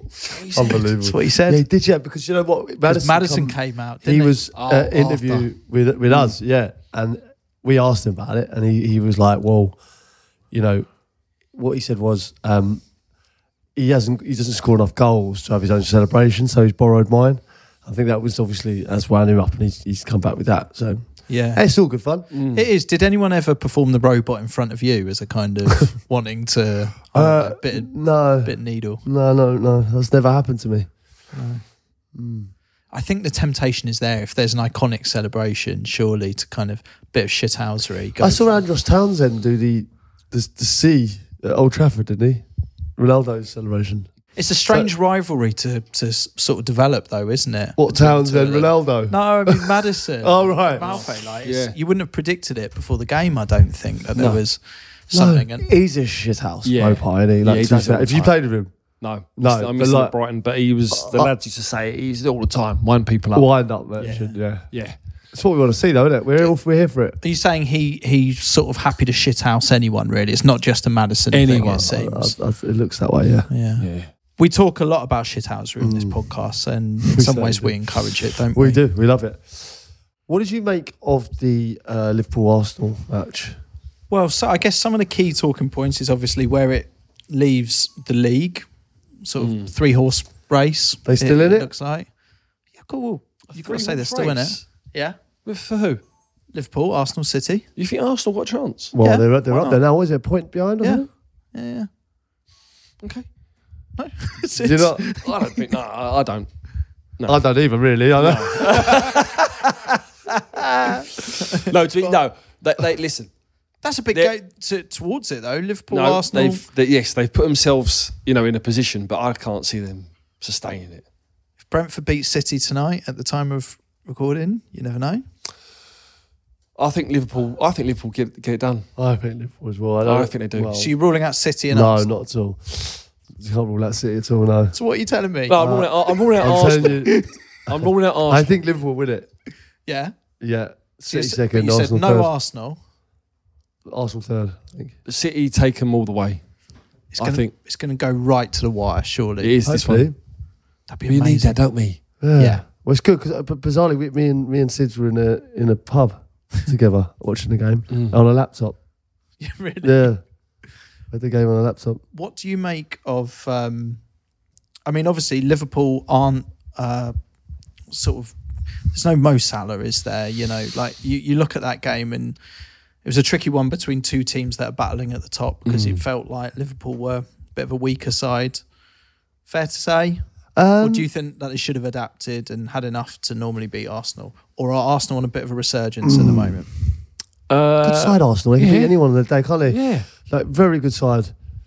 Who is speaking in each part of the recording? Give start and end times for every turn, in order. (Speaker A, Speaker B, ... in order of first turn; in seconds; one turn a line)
Speaker A: 0.3-0.9
Speaker B: 0.5-9.8
Speaker C: 1.0-1.6
Speaker C: 2.9-4.4
Speaker A: 4.5-5.5
Speaker B: 10.5-10.9
Speaker B: 11.5-12.8
Speaker B: 13.8-22.3
Speaker C: 21.3-21.6
Speaker A: 22.3-22.6
Speaker C: 22.5-29.0
Speaker B: 27.1-30.9
Speaker C: 31.3-31.6
Speaker B: 32.1-32.5
Speaker C: 32.9-38.6
Speaker B: 38.2-42.4
Speaker B: 43.0-44.1
Speaker C: 44.4-55.7
Speaker B: 47.8-50.8
Speaker A: 50.8-51.7
Speaker B: 55.1-58.7
Speaker A: 56.6-58.4
Speaker A: 59.0-63.5
Speaker B: 59.4-60.1
Speaker B: 60.9-61.3
Speaker B: 63.3-64.7
Speaker C: 64.0-64.3
Speaker B: 65.3-67.2
Speaker C: 67.2-72.3
Speaker A: 71.3-71.9
Speaker B: 71.8-73.5
Speaker C: 73.5-73.8
Speaker A: 73.8-74.1
Speaker C: 74.4-78.8
Speaker B: 75.8-76.2
Speaker B: 77.0-77.8
Speaker B: 78.5-83.6
Speaker C: 84.1-88.6
Speaker C: 89.2-92.1
Speaker A: 89.4-89.7
Speaker B: 91.0-91.7
Speaker C: 92.7-95.2
Speaker A: 93.5-94.6
Speaker A: 95.4-96.0
Speaker C: 96.5-97.7
Speaker A: 97.8-98.9
Speaker B: 98.9-101.0
Speaker C: 99.0-99.8
Speaker C: 100.8-101.9
Speaker A: 103.0-103.2
Speaker C: 104.0-105.6
Speaker B: 104.6-105.0
Speaker A: 105.1-106.5
Speaker B: 107.3-109.2
Speaker A: 108.2-109.5
Speaker C: 110.8-111.0
Speaker A: 111.5-113.3
Speaker C: 113.8-116.6
Speaker A: 115.9-121.0
Speaker C: 121.7-125.2
Speaker A: 126.8-128.8
Speaker B: 129.0-130.9
Speaker A: 130.0-130.8
Speaker C: 130.7-132.1
Speaker B: 131.7-134.7
Speaker C: 134.7-135.7
Speaker A: 135.5-138.6
Speaker B: 135.6-137.2
Speaker B: 138.3-139.3
Speaker C: 139.8-140.1
Speaker B: 140.4-142.3
Speaker C: 141.0-142.8
Speaker B: 143.8-144.9
Speaker A: 145.1-146.4
Speaker C: 147.1-149.6
Speaker A: 147.2-147.5
Speaker A: 149.4-150.1
Speaker B: 149.6-150.1
Speaker C: 150.9-151.6
Speaker A: 151.1-152.0
Speaker B: 152.2-158.8
Speaker C: 152.4-152.6
Speaker C: 159.4-160.1
Speaker B: 159.8-160.2
Speaker B: 161.1-162.0
Speaker C: 162.1-164.0
Speaker C: 164.8-167.1
Speaker C: 167.9-168.3
Speaker C: 168.9-172.4
Speaker C: 173.0-178.6
Speaker A: 175.7-176.0
Speaker C: 179.5-186.7
Speaker B: 180.5-181.1
Speaker B: 186.0-186.6
Speaker A: 187.5-188.9
Speaker B: 187.8-191.3
Speaker A: 189.7-190.1